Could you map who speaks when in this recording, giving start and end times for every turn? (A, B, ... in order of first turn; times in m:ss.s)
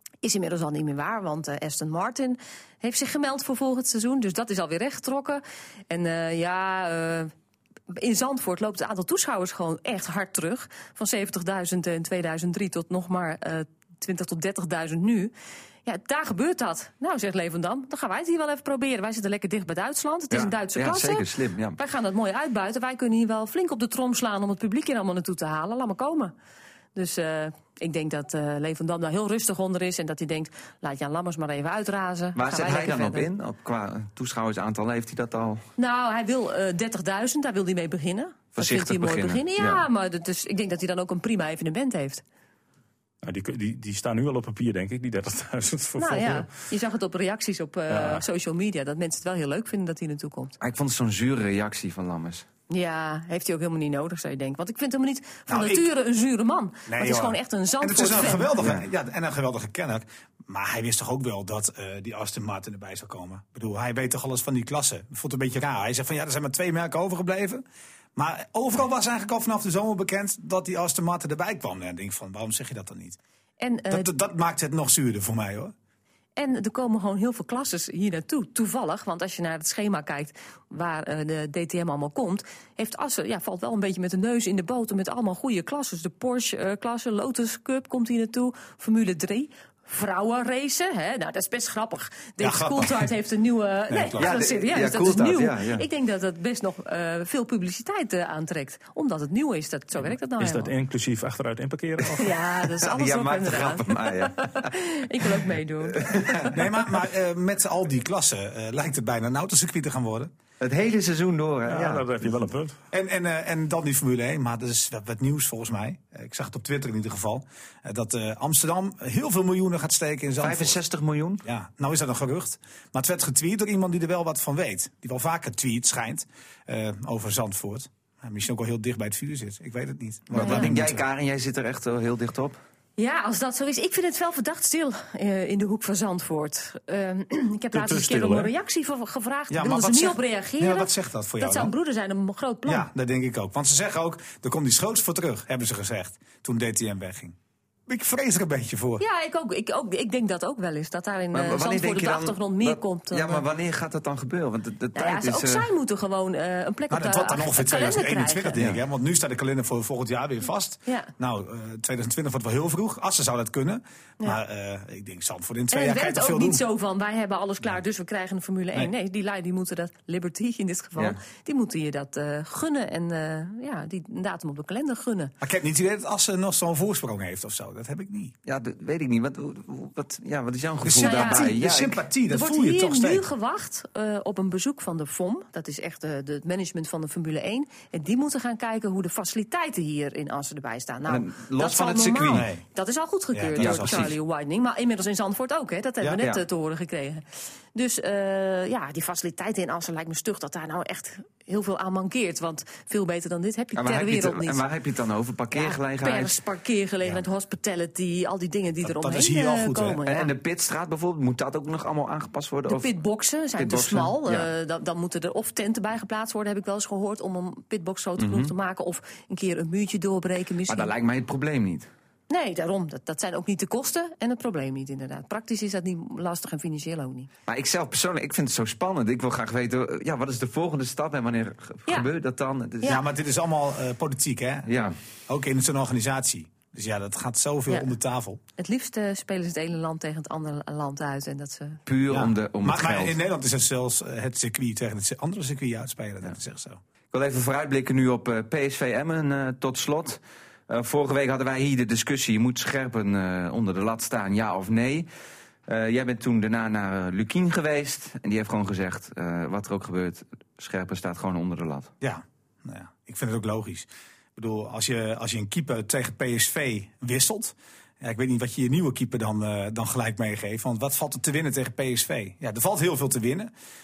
0:00.2-0:07.3 A
0:07.9-0:15.3 A
0:15.8-0:26.3 A
0:20.3-0:21.8 B
0:27.0-0:33.3 A
0:32.4-0:35.6 B
0:35.8-0:42.2 A
0:38.6-0:39.9 B
0:43.2-0:46.5 C
0:46.0-0:50.6 A
0:47.9-0:48.2 C
0:50.6-0:52.4 B
0:52.7-0:58.6 A
0:55.5-0:55.9 D
0:56.9-1:07.6 D
0:58.6-0:58.9 B
1:08.2-1:13.2 D
1:13.6-1:14.1 A
1:13.9-1:15.7 D
1:16.4-1:40.8 A
1:32.4-1:33.1 D
1:33.9-1:34.4 D
1:34.2-1:35.8 B
1:40.4-1:42.4 C
1:42.2-1:46.5 A
1:42.6-1:44.7 B
1:46.0-1:46.6 B
1:46.4-1:50.3 D
1:50.6-1:52.1 B
1:51.7-1:52.8 C
1:52.9-2:00.8 D
2:00.4-2:01.4 B
2:01.4-2:11.0 D
2:10.3-2:12.6 B
2:10.4-2:10.7 A
2:13.0-2:22.9 A
2:17.8-2:18.5 C
2:19.5-2:21.7 D
2:22.7-2:27.4 D
2:27.9-2:29.0 D
2:29.0-2:33.5 A
2:31.3-2:35.7 B
2:35.0-2:38.6 A
2:36.9-2:46.6 D
2:45.7-2:55.4 A
2:55.4-2:58.4 D
2:58.5-3:02.0 B
3:00.8-3:03.3 D
3:01.0-3:01.6 A
3:02.3-3:24.6 A
3:11.1-3:12.5 B
3:12.3-3:12.6 D
3:13.3-3:14.1 D
3:13.6-3:14.2 B
3:23.8-3:26.4 B
3:25.5-3:30.3 A
3:28.8-3:30.0 D
3:30.0-3:32.9 B
3:32.7-3:40.9 A
3:33.6-3:34.5 B
3:38.2-3:38.5 B
3:40.7-3:41.9 B
3:42.3-3:47.3 A
3:47.5-3:53.0 B
3:52.8-3:54.7 D
3:54.7-3:54.9 B
3:55.3-3:58.4 D
3:58.6-4:01.8 A
4:01.9-4:03.2 B
4:02.1-4:06.8 D
4:07.1-4:15.1 B
4:15.7-4:21.9 B
4:22.0-4:33.5 D